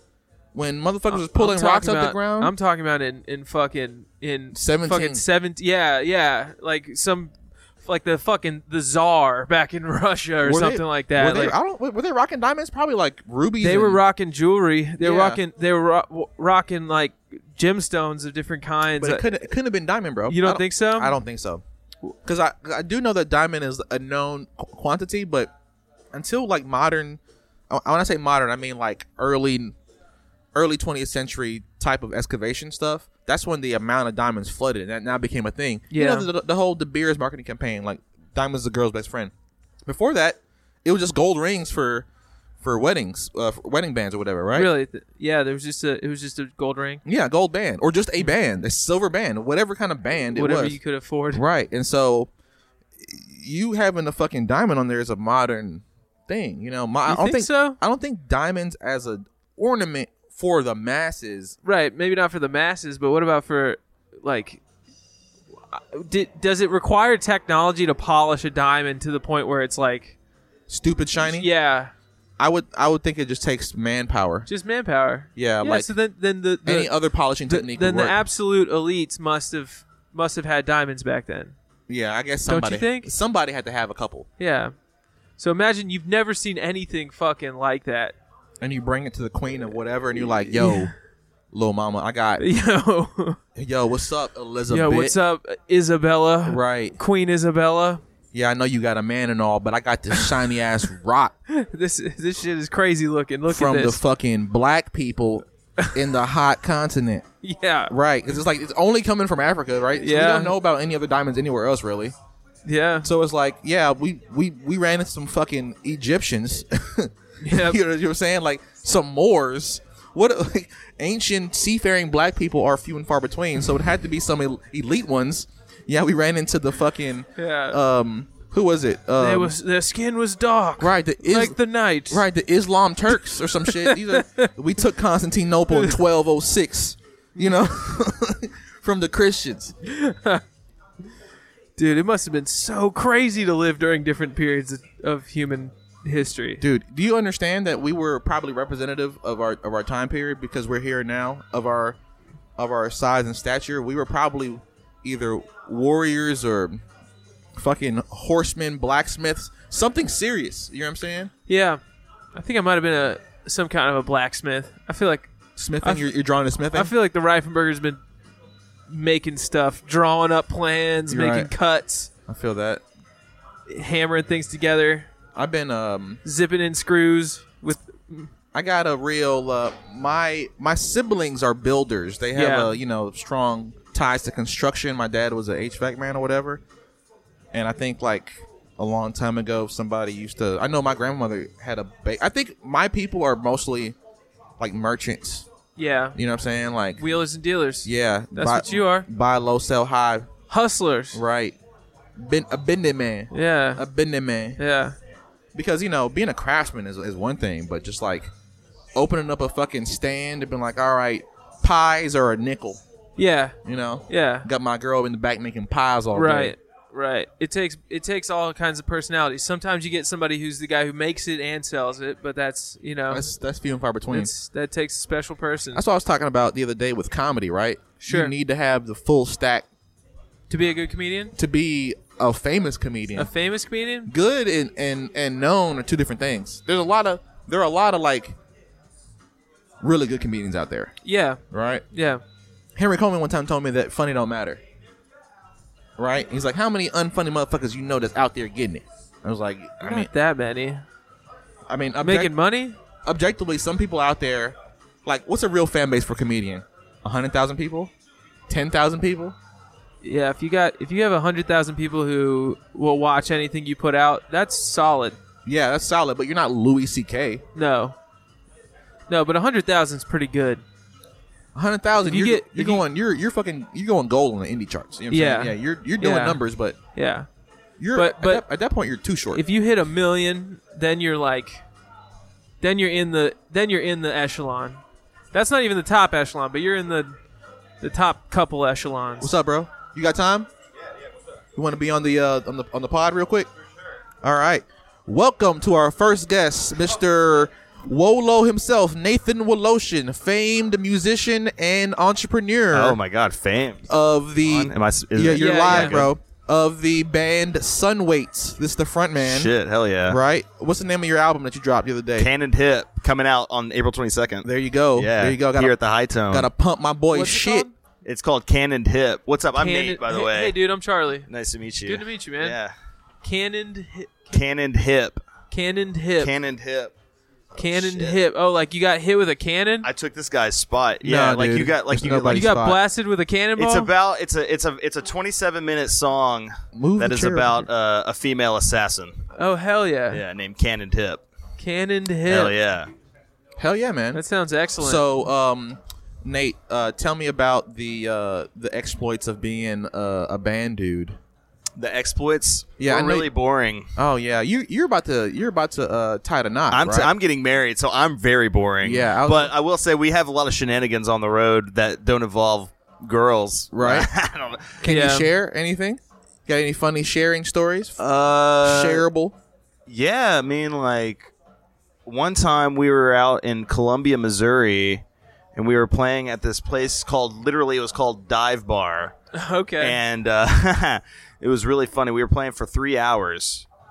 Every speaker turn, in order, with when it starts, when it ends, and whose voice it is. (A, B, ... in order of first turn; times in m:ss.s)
0:00.5-0:02.5 A
0:01.1-0:11.6 B
0:04.5-0:05.2 A
0:10.4-0:14.0 A
0:13.6-0:19.3 B
0:15.0-0:15.4 A
0:19.0-0:21.6 A
0:20.3-0:21.1 B
0:22.2-0:25.5 A
0:26.1-0:29.8 A
0:30.5-0:39.3 A
0:35.9-0:36.3 B
0:39.8-0:42.1 A
0:42.6-0:44.7 A
0:44.5-0:47.0 B
0:47.0-0:50.8 A
0:50.3-0:51.4 B
0:51.3-0:52.3 A
0:53.0-1:01.6 A
0:57.1-0:57.8 B
1:01.6-1:04.6 B
1:05.7-1:10.2 B
1:10.7-1:11.5 A
1:11.2-1:11.9 B
1:12.4-1:14.5 A
1:14.5-1:16.9 B
1:15.4-1:15.9 A
1:16.6-1:18.2 A
1:17.5-1:21.6 B
1:21.9-1:24.3 A
1:22.5-1:23.1 B
1:24.4-1:24.7 B
1:25.4-1:28.1 B
1:28.6-1:30.9 A
1:30.5-1:30.9 B
1:31.5-1:32.4 A
1:32.4-1:33.4 B
1:33.6-1:35.2 A
1:34.7-1:38.0 B
1:36.4-1:37.0 A
1:38.3-1:41.3 A
1:41.5-1:44.0 B
1:43.5-1:47.2 A
1:45.8-1:46.0 B
1:47.4-1:47.9 B
1:47.9-1:52.1 A
1:50.0-1:50.5 B
1:52.6-1:53.1 B
1:53.0-2:09.5 A
1:57.4-1:57.8 B
2:07.4-2:07.8 B
2:09.2-2:12.2 B
2:10.8-2:19.8 A
2:13.7-2:14.5 B
2:15.7-2:16.0 B
2:19.8-2:20.4 B
2:21.8-2:26.6 B
2:26.6-2:32.0 A
2:32.6-2:36.8 A
2:37.5-2:41.3 A
2:41.5-2:41.8 B
2:42.3-2:46.1 B
2:45.6-2:46.9 A
2:46.7-2:48.0 B
2:48.9-2:52.1 B
2:51.1-2:51.5 A
2:52.3-2:52.8 A
2:53.7-2:55.1 B
2:55.3-2:56.2 A
2:56.2-2:58.3 B
2:58.5-3:06.6 A
3:02.3-3:02.7 B
3:07.5-3:14.0 A
3:14.6-3:15.5 A
3:15.8-3:16.2 B
3:16.1-3:17.0 A
3:17.0-3:19.1 B
3:17.8-3:20.3 A
3:20.5-3:21.2 B
3:21.1-3:21.6 A
3:22.2-3:24.6 A
3:23.3-3:23.8 B
3:24.6-3:25.0 B
3:25.5-3:28.3 A
3:28.9-3:32.8 A
3:33.2-3:33.6 B
3:33.6-3:36.5 A
3:34.1-3:34.4 B
3:36.1-3:43.2 B
3:43.1-3:44.3 A
3:44.1-3:45.8 B
3:45.7-3:49.6 A
3:48.0-3:48.3 B
3:50.5-3:51.3 B
3:51.4-3:53.3 A
3:53.2-3:54.1 B
3:54.0-3:58.4 A
3:59.8-4:00.9 A
4:01.0-4:01.4 B
4:01.5-4:01.8 A
4:01.9-4:02.2 B
4:02.8-4:04.6 A
4:06.0-4:10.1 A
4:09.8-4:10.8 B
4:11.7-4:12.3 A
4:12.0-4:12.8 B
4:13.0-4:17.9 A
4:18.5-4:19.4 A
4:20.0-4:25.2 B
4:25.4-4:27.4 A
4:27.5-4:28.0 B
4:29.1-4:30.6 B
4:31.5-4:36.8 A
4:32.0-4:32.8 B
4:35.1-4:36.4 B
4:36.9-4:37.3 B
4:37.8-4:39.4 A
4:37.9-4:38.4 B
4:39.3-4:41.6 B
4:42.6-4:44.8 B
4:45.3-4:47.2 B
4:47.8-4:49.3 B
4:49.2-4:50.5 A
4:51.5-4:53.5 A
4:54.2-5:03.0 A
5:02.7-5:03.9 C
5:03.9-5:09.5 A
5:04.4-5:06.1 C
5:05.4-5:06.0 B
5:09.2-5:10.2 C
5:10.0-5:12.3 A
5:12.2-5:16.5 C
5:14.4-5:15.8 A
5:16.3-5:17.7 A
5:17.1-5:17.7 B
5:18.0-5:20.6 C
5:19.6-5:21.3 B
5:21.3-5:22.7 C
5:21.8-5:22.6 B
5:23.2-5:24.4 B
5:24.3-5:25.2 C
5:25.5-5:26.3 B
5:26.2-5:26.9 C
5:27.6-5:29.9 B
5:27.6-5:28.2 C
5:29.8-5:32.5 C
5:31.0-5:32.8 A
5:32.3-5:33.9 B
5:33.6-5:39.2 C
5:36.7-5:37.6 A
5:39.3-5:40.2 B
5:40.1-5:41.2 C
5:41.6-5:42.6 B
5:42.3-5:42.9 C
5:43.6-5:44.2 A
5:44.1-5:45.0 B
5:44.8-5:51.2 A
5:51.8-5:53.9 C
5:52.8-5:53.3 A
5:54.0-5:57.1 A
5:56.7-6:04.8 C
5:58.8-5:59.5 A
6:03.7-6:04.1 A
6:04.8-6:08.0 A
6:04.8-6:05.3 B
6:08.0-6:09.0 C
6:08.6-6:09.4 A
6:09.9-6:11.3 C
6:12.0-6:15.0 C
6:15.5-6:19.2 C
6:19.3-6:20.0 B
6:19.8-6:23.6 C